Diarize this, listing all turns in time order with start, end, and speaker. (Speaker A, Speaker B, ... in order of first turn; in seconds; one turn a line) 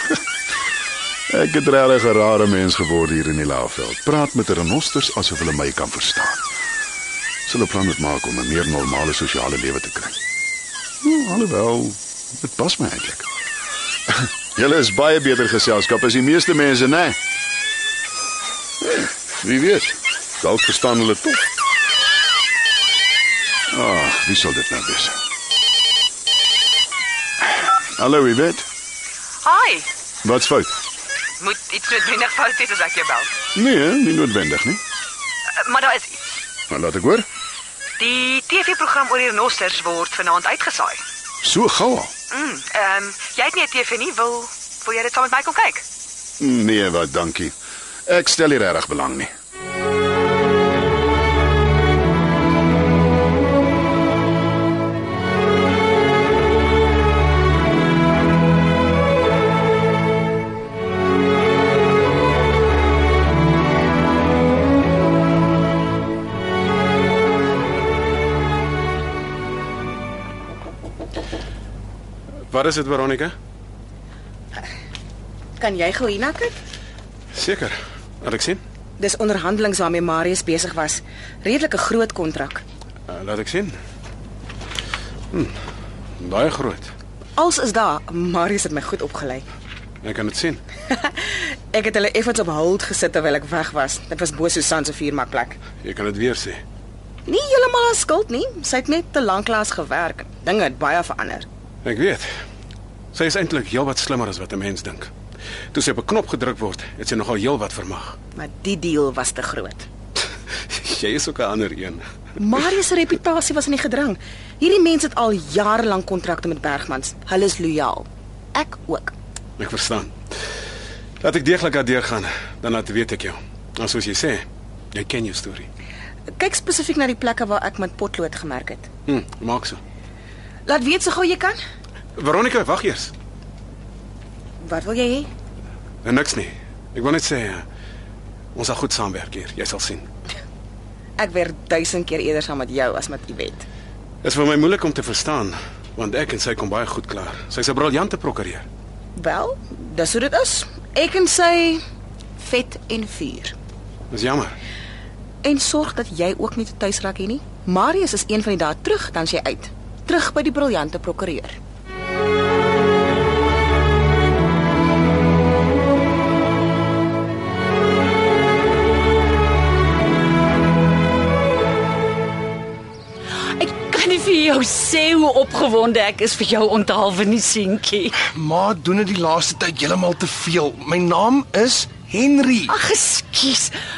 Speaker A: 1.3-6.4
Speaker A: 7.5-10.2
Speaker A: 11.0-13.3
Speaker A: 14.1-17.2
Speaker A: 18.8-21.4
Speaker A: 23.7-25.2
Speaker A: 27.6-28.7
Speaker B: 29.4-29.9
Speaker A: 30.2-30.8
Speaker B: 31.4-33.3
Speaker A: 33.5-34.8
Speaker B: 35.6-36.1
Speaker A: 36.7-37.3
Speaker B: 38.0-41.0
Speaker A: 41.4-42.1
Speaker B: 42.3-45.8
Speaker A: 46.4-47.5
Speaker A: 48.0-49.3
Speaker C: 72.5-73.3
Speaker D: 75.6-76.5
Speaker C: 77.3-78.6
Speaker D: 79.0-82.6
Speaker C: 83.1-83.8
Speaker C: 86.2-86.9
Speaker D: 87.3-89.4
Speaker C: 90.0-90.6
Speaker D: 90.9-95.6
Speaker C: 95.8-96.6
Speaker D: 97.2-101.5
Speaker C: 101.8-102.3
Speaker C: 103.1-105.1
Speaker C: 105.7-108.2
Speaker D: 108.3-109.9
Speaker C: 110.7-112.0
Speaker D: 112.4-119.1
Speaker C: 119.6-120.1
Speaker C: 121.2-125.7
Speaker D: 126.3-128.9
Speaker C: 129.1-129.8
Speaker D: 130.7-131.6
Speaker C: 132.2-133.1
Speaker D: 134.6-135.3
Speaker C: 136.0-137.6
Speaker C: 138.5-140.1
Speaker D: 141.2-143.7
Speaker C: 144.2-148.7
Speaker D: 149.2-151.8
Speaker D: 152.4-153.5
Speaker C: 154.1-154.6
Speaker D: 155.4-161.6
Speaker E: 173.6-178.2
Speaker F: 178.3-182.7
Speaker E: 182.7-183.7